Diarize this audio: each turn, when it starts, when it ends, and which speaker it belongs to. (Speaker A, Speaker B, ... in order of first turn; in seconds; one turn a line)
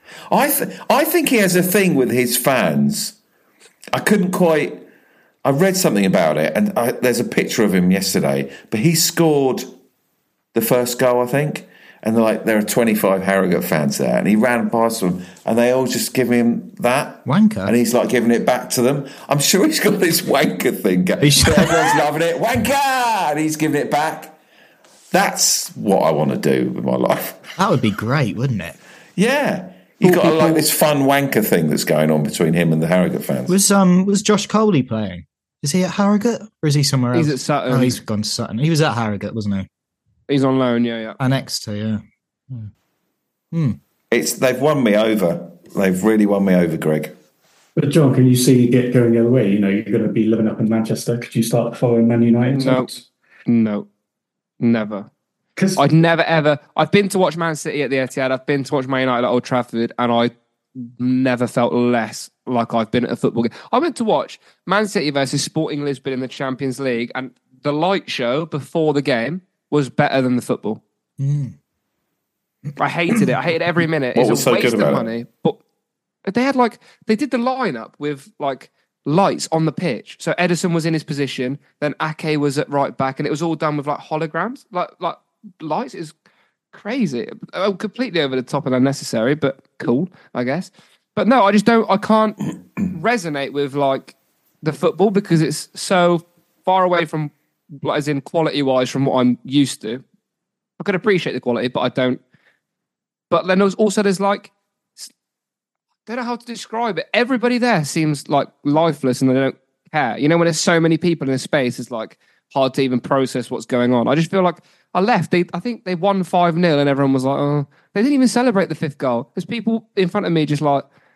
Speaker A: 0.3-3.2
Speaker A: 3.9-4.9
Speaker A: 5.4-9.7
Speaker A: 10.5-24.4
Speaker B: 17.2-17.8
Speaker B: 21.2-21.9
Speaker A: 25.1-27.5
Speaker B: 27.6-28.8
Speaker A: 29.2-33.6
Speaker C: 30.0-30.7
Speaker B: 33.5-39.7
Speaker C: 37.1-38.0
Speaker C: 40.3-41.2
Speaker B: 41.2-42.7
Speaker B: 43.5-43.8
Speaker A: 44.1-47.1
Speaker D: 47.8-53.1
Speaker C: 52.5-52.9
Speaker C: 53.5-53.9
Speaker C: 54.6-55.1
Speaker D: 55.6-55.9
Speaker C: 55.8-70.8
Speaker B: 71.2-71.5
Speaker C: 72.8-75.6
Speaker A: 74.2-75.1
Speaker C: 76.2-86.1
Speaker C: 86.7-100.0
Speaker C: 100.8-102.2
Speaker C: 103.3-105.1
Speaker C: 106.1-120.9